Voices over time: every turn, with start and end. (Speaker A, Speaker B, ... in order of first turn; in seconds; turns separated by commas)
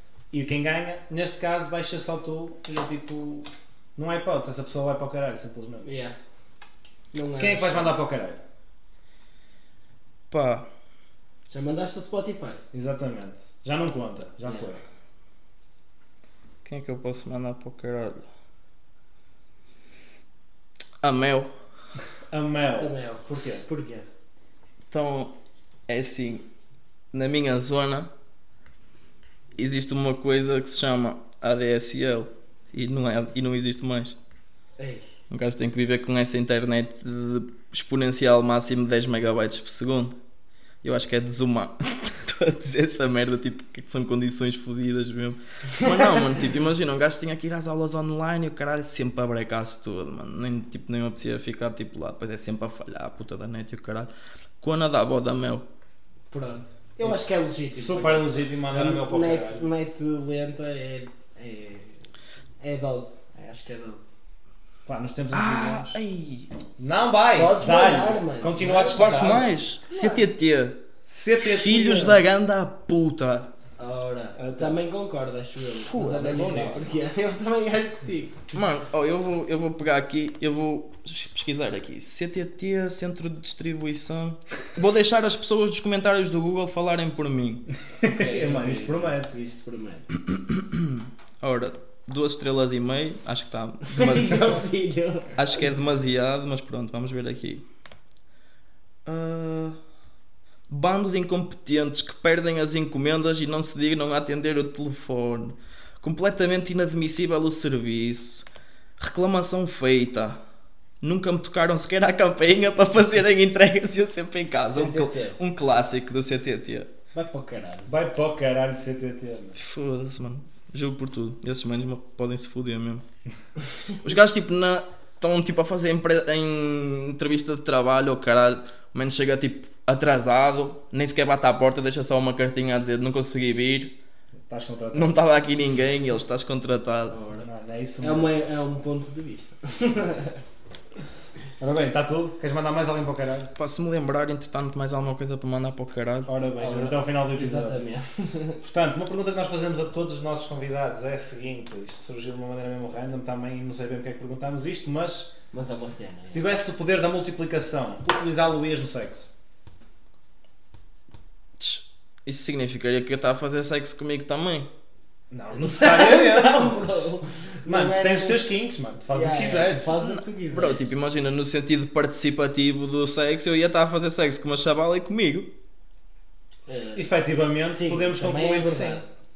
Speaker A: 0.3-5.9, Speaker B: 5.8-6.1, Speaker B: 7.1-8.0, Speaker A: 7.4-8.4, Speaker C: 10.3-10.7, Speaker B: 11.5-12.6, Speaker A: 12.7-14.8, Speaker C: 16.6-18.2, Speaker C: 21.0-21.5, Speaker A: 22.3-23.6, Speaker B: 22.8-24.1, Speaker C: 24.9-25.3, Speaker C: 25.9-26.4, Speaker C: 27.1-28.1, Speaker C: 29.6-34.1, Speaker B: 34.8-35.0, Speaker C: 35.3-40.1, Speaker C: 40.8-54.1, Speaker C: 54.6-55.6, Speaker B: 56.3-62.1, Speaker A: 57.7-59.7, Speaker B: 62.6-64.0, Speaker A: 64.8-66.0, Speaker C: 65.3-66.5, Speaker A: 66.8-70.2, Speaker B: 67.3-69.5, Speaker C: 68.9-70.8, Speaker A: 71.1-72.2, Speaker C: 71.4-73.5, Speaker B: 73.8-78.4, Speaker A: 74.4-74.8, Speaker C: 75.9-76.7, Speaker A: 76.0-76.9, Speaker C: 78.5-87.6, Speaker B: 88.0-90.1, Speaker A: 88.0-89.3, Speaker C: 90.3-94.6, Speaker B: 93.9-95.4, Speaker C: 95.4-97.6, Speaker C: 99.0-99.8, Speaker C: 100.7-108.4, Speaker C: 109.0-110.4, Speaker C: 111.0-116.9, Speaker B: 114.7-115.4, Speaker B: 117.1-117.9, Speaker A: 117.9-119.6, Speaker C: 119.6-123.0, Speaker C: 123.9-133.9, Speaker A: 134.5-135.2, Speaker C: 134.9-137.2, Speaker B: 137.1-137.4, Speaker A: 137.4-138.4, Speaker B: 138.0-140.4, Speaker A: 141.6-143.5, Speaker C: 143.5-146.3, Speaker A: 146.3-147.8, Speaker B: 146.6-148.6, Speaker A: 148.6-155.3, Speaker B: 155.5-156.4, Speaker A: 156.3-159.3, Speaker C: 161.6-164.7, Speaker A: 165.3-167.1, Speaker B: 165.6-168.4, Speaker A: 167.7-169.9, Speaker B: 169.1-170.8, Speaker C: 170.0-175.5, Speaker B: 176.7-177.0, Speaker A: 176.9-179.0, Speaker B: 177.7-179.1